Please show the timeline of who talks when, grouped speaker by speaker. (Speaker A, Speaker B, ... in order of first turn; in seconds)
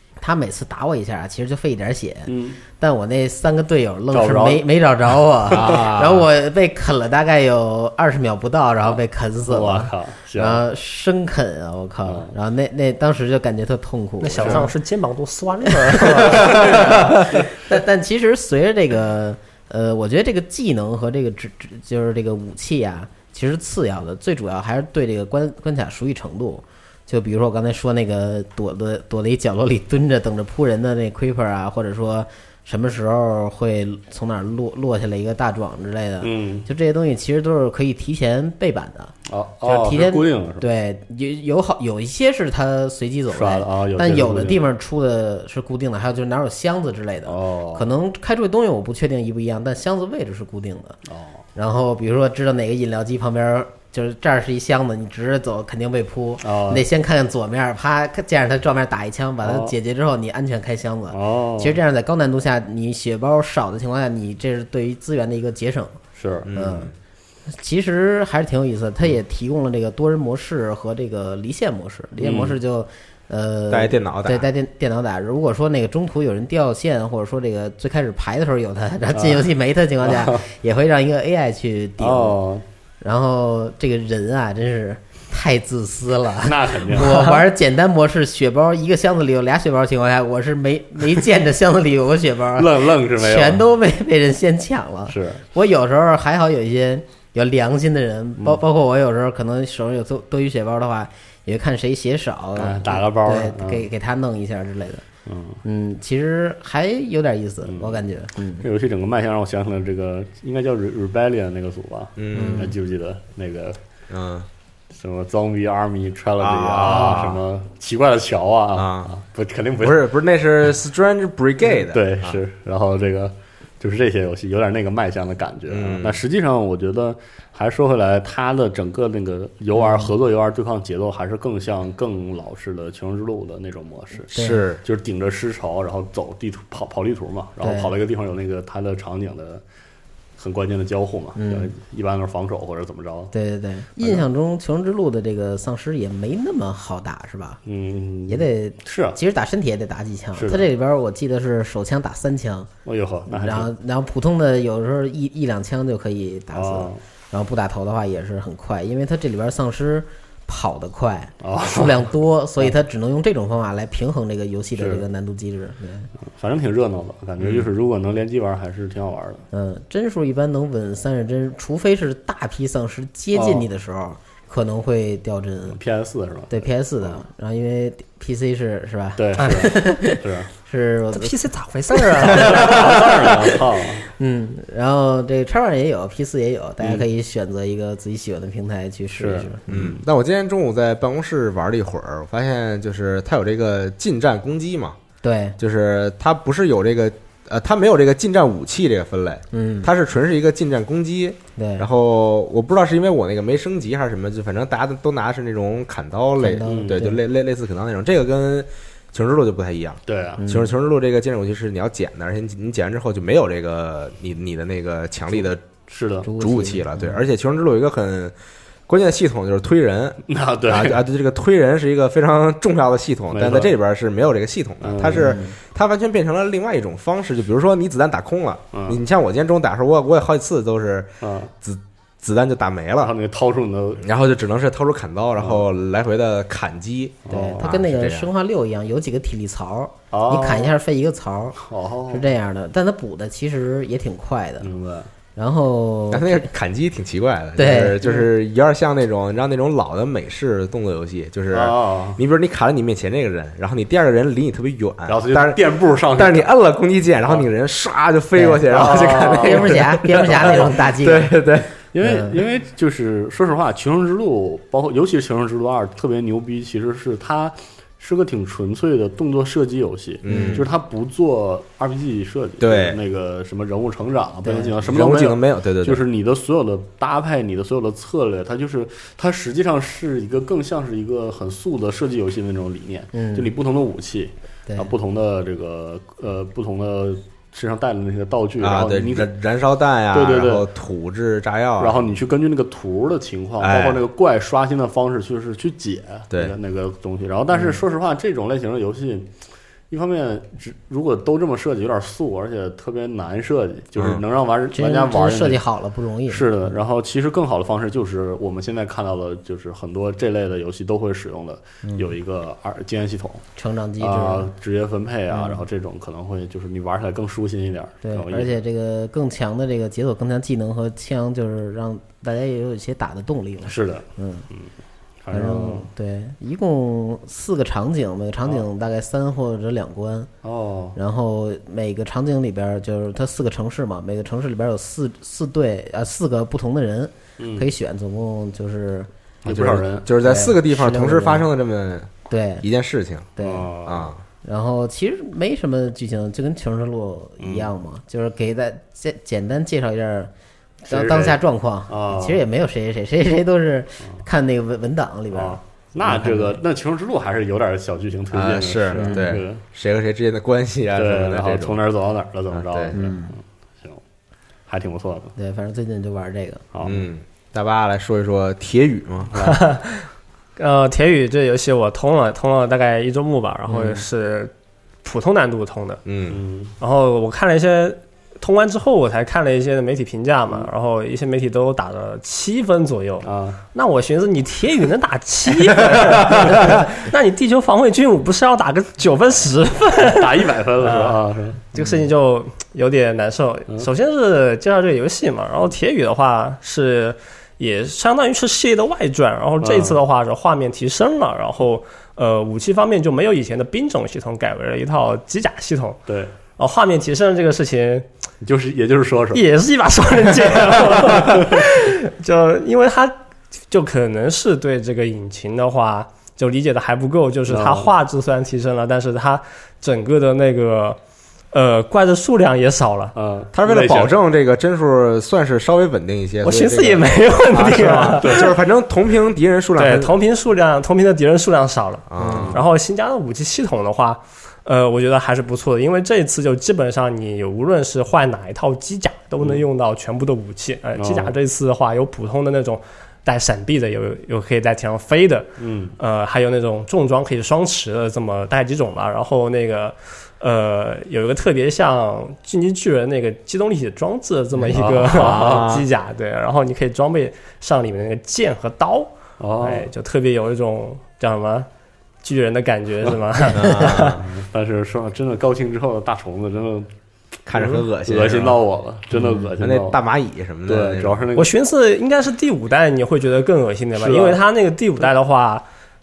Speaker A: 0.2-14.7, 16.0-39.1, 39.6-51.0, 51.5-66.0, 66.5-66.9, 67.5-82.4, 83.0-105.0, 105.6-108.6, 112.3-112.7, 116.9-117.2, 129.8-130.1, 134.3-134.6, 137.6-137.9, 141.4-141.7, 143.3-147.6, 148.3-152.7, 153.3-166.1, 169.5-175.8, 176.5-181.4, 181.9-182.8, 184.1-189.6, 195.2-195.6, 199.5-199.9, 201.6-201.8, 206.4-207.2, 210.4-210.7, 216.2-217.2, 225.1-225.5, 237.3-241.6, 242.1-244.7, 245.3-246.4, 247.6-248.0, 258.3-261.4, 262.0-262.3, 270.3-270.6, 274.4-274.8, 283.1-283.5, 304.7-306.7, 311.8-312.1, 313.6-314.5, 315.3-315.6, 318.0-324.4, 325.3-330.3, 330.9-339.1, 340.2-341.4, 342.3-342.6, 343.4-343.7, 344.4-350.3, 350.9-356.6, 359.0-359.3, 362.9-363.3, 365.4-366.6, 469.1-469.5
Speaker B: 2.3-2.6, 4.1-4.6, 5.5-5.9, 9.5-10.6, 12.1-12.3, 14.4-14.7, 36.2-36.7, 39.3-40.6, 43.3-44.6, 47.2-47.9, 51.1-51.4, 56.4-56.8, 59.4-59.7, 61.1-61.8, 66.2-66.5, 72.2-72.6, 79.1-79.5, 80.0-80.4, 82.0-82.6, 86.4-87.2, 92.6-93.6, 95.1-95.4, 102.5-103.8, 105.2-105.6, 107.6-108.0, 108.6-113.8, 114.9-120.1, 121.7-139.6, 140.4-143.3, 147.7-149.2, 150.3-150.7, 152.8-153.7, 156.5-157.0, 161.4-162.1, 164.8-165.0, 166.3-169.4, 173.3-173.6, 175.7-177.2, 179.2-180.5, 182.3-184.1, 189.2-190.0, 206.7-207.0, 210.1-210.4, 215.9-216.3, 220.3-221.0, 223.3-223.7, 224.8-225.4, 228.7-229.0, 231.2-231.5, 233.0-234.0, 235.4-235.6, 237.2-237.7, 240.1-240.7, 241.6-242.2, 244.6-245.1, 251.5-252.2, 255.1-256.5, 258.7-260.7, 261.9-289.3, 290.1-290.6, 291.8-299.3, 299.9-305.6, 306.3-313.4, 314.0-318.5, 323.6-324.7, 325.2-325.9, 330.4-331.0, 337.4-337.7, 339.4-340.1, 343.4-344.1, 347.4-347.7, 350.9-352.4, 355.3-359.6, 360.9-364.0, 364.7-365.3, 366.7-367.0, 369.3-369.6, 373.7-374.0, 376.3-376.7, 383.2-383.6, 390.0-391.6, 399.6-400.0, 408.4-409.5, 410.9-411.6, 417.5-417.9, 423.1-424.2, 427.9-428.5, 432.2-432.6, 441.0-441.3, 445.6-445.9, 454.6-455.7, 459.4-459.9, 464.2-466.9, 467.5-470.0, 470.6-471.5, 473.9-474.4
Speaker C: 5.5-6.2, 66.5-66.9, 73.7-74.5, 112.2-112.7, 114.1-114.5, 116.4-117.4, 118.7-119.1, 119.8-122.4, 125.7-126.2, 134.3-134.8, 167.4-167.7, 189.7-195.0, 195.6-215.6, 216.4-218.3, 218.9-231.1, 231.6-233.1, 234.0-238.3, 246.1-261.7, 270.2-270.7, 272.6-273.0, 274.8-276.0, 288.6-292.1, 293.6-294.0, 296.3-296.6, 339.4-342.1, 342.6-343.3, 343.8-344.2, 358.3-361.8, 362.5-362.9, 366.8-369.4, 376.1-376.4, 423.6-430.1, 432.1-432.6, 455.1-455.9, 463.5-464.2, 467.4-468.6, 469.6-471.2
Speaker D: 14.2-16.9, 87.1-87.3, 181.1-182.9, 369.4-370.0, 370.6-374.5, 375.0-376.0, 376.8-391.2, 391.7-406.0, 406.6-408.1, 409.3-413.1, 413.7-421.0, 421.5-423.1, 426.4-428.5, 429.8-461.7, 462.2-464.2, 471.4-475.6